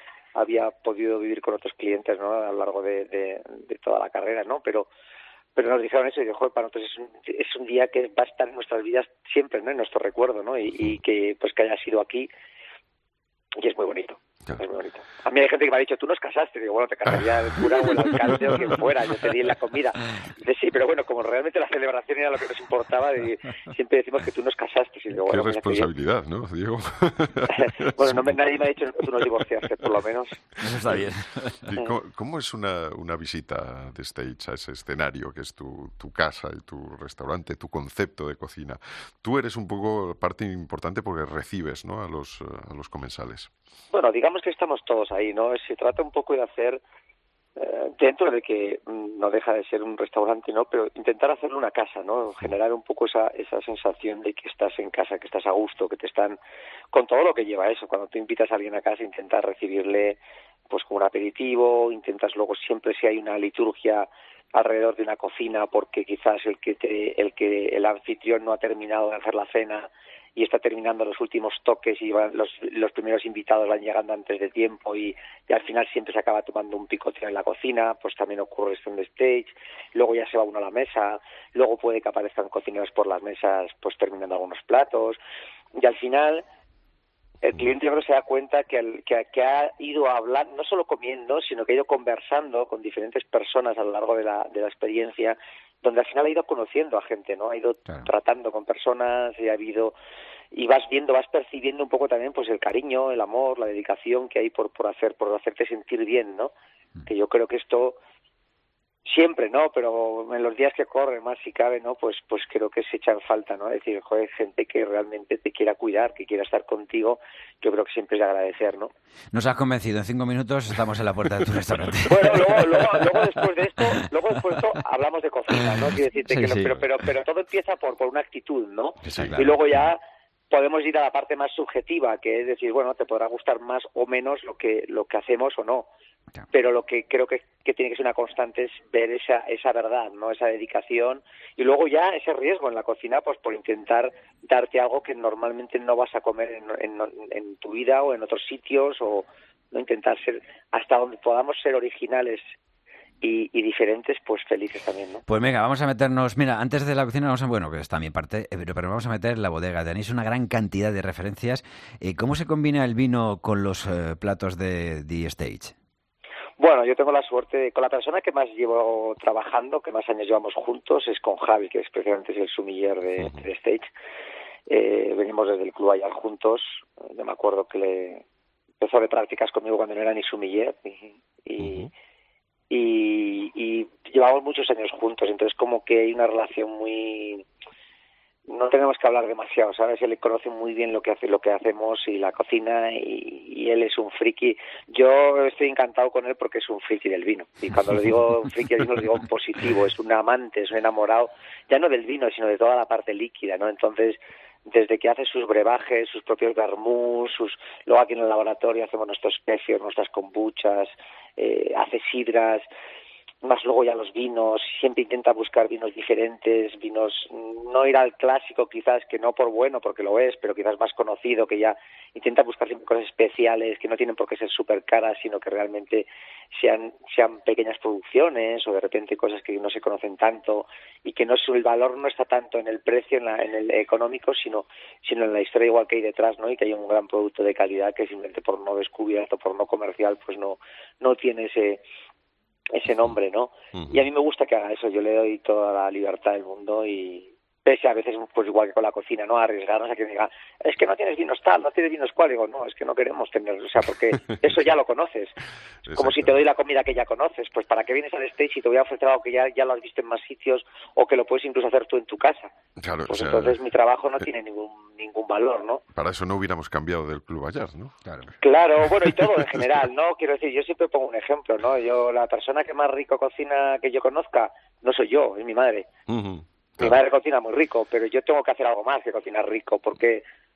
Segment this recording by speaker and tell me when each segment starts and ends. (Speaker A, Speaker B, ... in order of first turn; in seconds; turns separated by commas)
Speaker A: 0.3-4.9, Speaker A: 5.5-12.3, Speaker A: 13.6-25.9, Speaker B: 25.2-28.4, Speaker A: 27.5-30.4, Speaker B: 29.2-29.9, Speaker C: 30.6-31.7, Speaker B: 30.8-31.1, Speaker B: 31.6-43.5, Speaker A: 43.9-46.8, Speaker A: 47.5-56.4, Speaker A: 56.9-85.2, Speaker A: 85.8-86.4, Speaker A: 87.4-99.9, Speaker A: 100.5-106.5, Speaker A: 107.0-108.0, Speaker A: 109.0-118.9, Speaker C: 119.3-122.9, Speaker A: 122.1-135.9, Speaker C: 126.2-126.8, Speaker C: 129.0-129.6, Speaker A: 136.5-152.4, Speaker A: 153.2-155.2, Speaker C: 155.3-165.7, Speaker A: 166.6-173.9, Speaker A: 174.7-178.2, Speaker A: 178.8-181.9, Speaker B: 181.6-181.9, Speaker A: 182.7-187.4, Speaker A: 188.5-212.7, Speaker A: 213.4-241.8, Speaker A: 242.7-255.4, Speaker B: 243.7-244.0, Speaker B: 255.8-256.4, Speaker A: 255.9-262.5, Speaker B: 262.8-263.6, Speaker A: 263.1-265.8, Speaker B: 265.9-267.9, Speaker A: 268.4-275.9, Speaker B: 276.1-277.0, Speaker A: 276.8-280.2